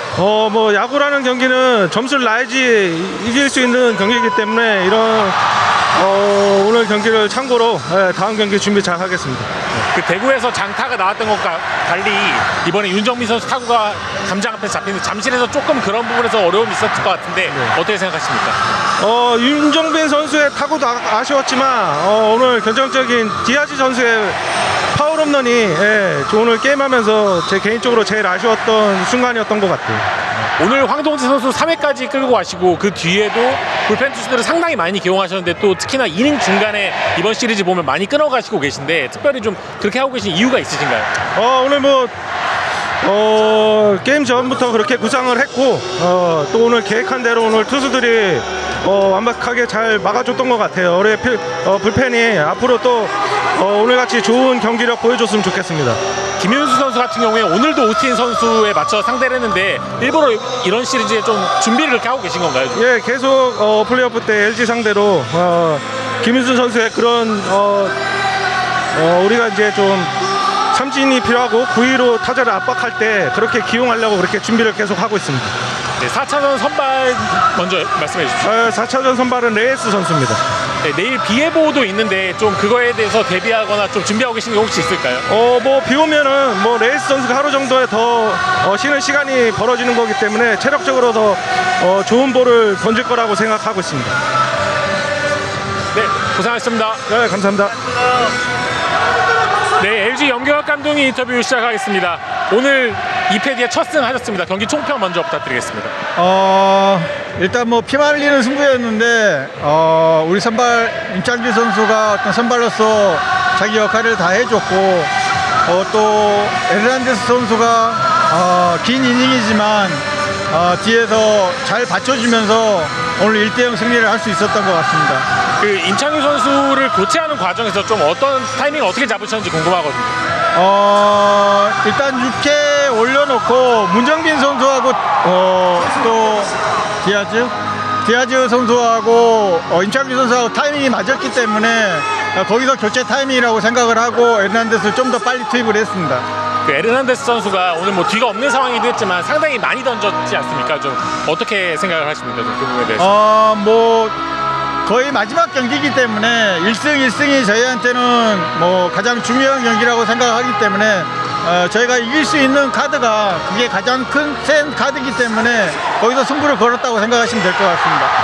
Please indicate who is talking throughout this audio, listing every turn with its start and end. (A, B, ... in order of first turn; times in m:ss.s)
0:00.2-0:05.4 A
0:06.0-0:09.5 A
0:09.9-0:18.6 B
0:19.0-0:24.4 A
0:24.9-0:30.0 A
0:30.6-0:41.1 B
0:41.4-0:42.1 A
0:43.0-0:56.0 A
0:56.4-1:02.8 B
1:02.8-1:07.9 A
1:08.9-1:10.1 A
1:10.7-1:15.5 A
1:16.0-1:18.5 B
1:18.4-1:20.4 A
1:20.8-1:25.2 B
1:25.3-1:34.1 A
1:35.9-1:37.0 B
1:37.1-1:38.0 A
1:39.8-1:45.9 B
1:46.2-1:55.1 C
1:55.7-2:05.2 C
2:05.6-2:10.2 B
2:10.5-2:16.5 C
2:17.0-2:17.5 C
2:18.0-2:26.2 C
2:26.6-2:33.2 B
2:33.0-2:34.2 C
2:34.8-2:48.1 C